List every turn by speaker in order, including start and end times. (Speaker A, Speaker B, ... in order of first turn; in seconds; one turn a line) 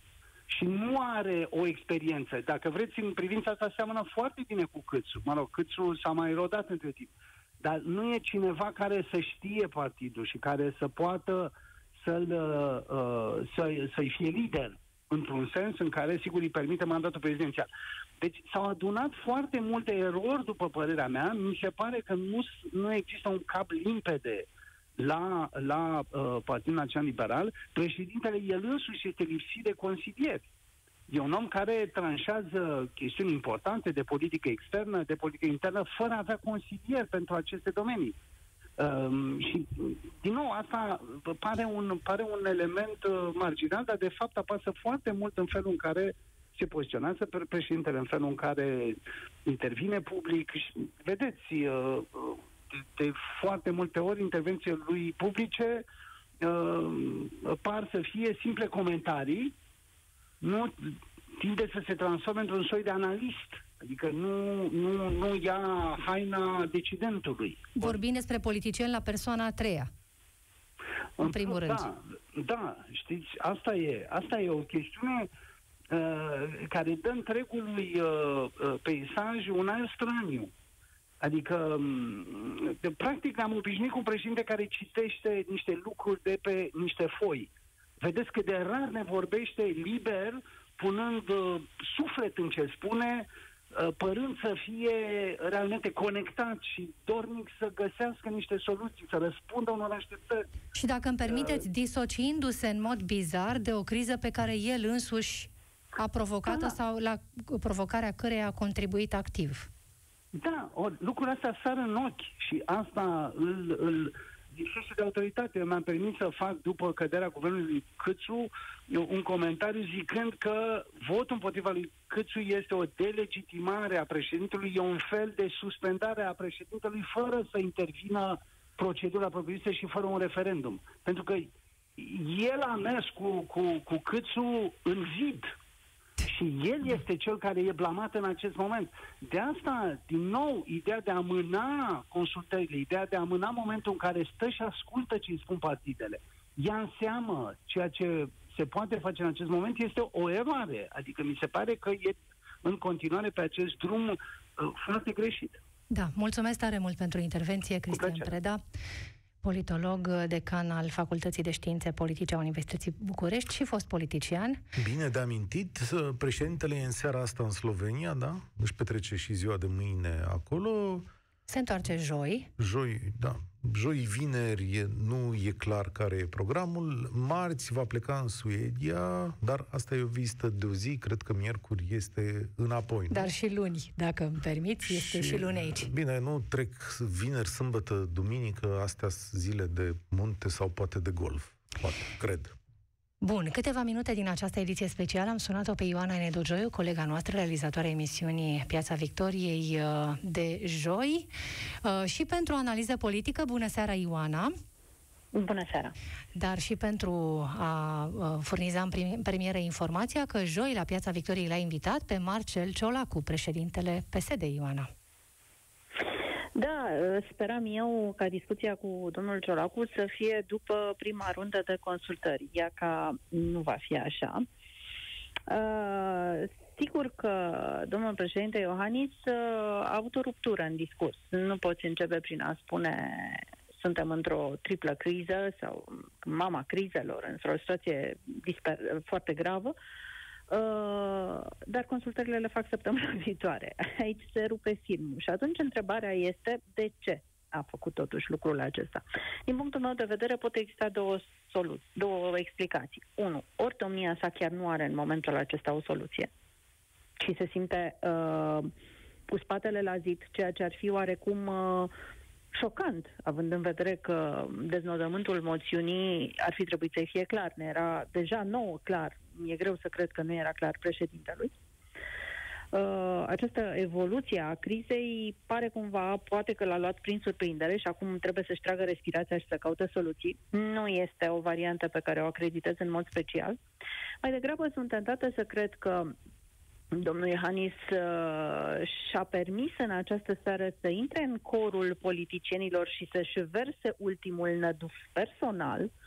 Speaker A: 0.5-17.7
Speaker A: 18.2-30.4
Speaker A: 31.1-38.1
Speaker A: 38.8-55.8
Speaker A: 56.4-59.5
Speaker A: 60.4-68.0
Speaker B: 67.8-69.9
Speaker A: 71.2-75.3
Speaker B: 71.2-71.9
Speaker A: 75.9-80.5
Speaker A: 81.2-100.5
Speaker B: 100.7-109.7
Speaker A: 101.2-101.6
Speaker A: 106.5-106.8
Speaker A: 110.3-135.5
Speaker A: 136.2-155.6
Speaker B: 155.9-158.6
Speaker A: 157.9-158.3
Speaker B: 159.4-164.6
Speaker C: 164.8-171.1
Speaker B: 171.5-172.5
Speaker C: 172.6-183.3
Speaker B: 183.1-185.9
Speaker C: 184.9-192.6
Speaker B: 193.2-201.3
Speaker B: 201.8-204.5
Speaker D: 205.3-205.9
Speaker B: 206.3-214.9
Speaker D: 216.6-224.4
Speaker D: 225.5-239.7
Speaker D: 240.5-256.3
Speaker D: 257.2-258.7
Speaker D: 259.3-261.9
Speaker D: 262.5-271.5
Speaker D: 272.7-283.6
Speaker D: 284.2-286.1
Speaker D: 286.9-295.9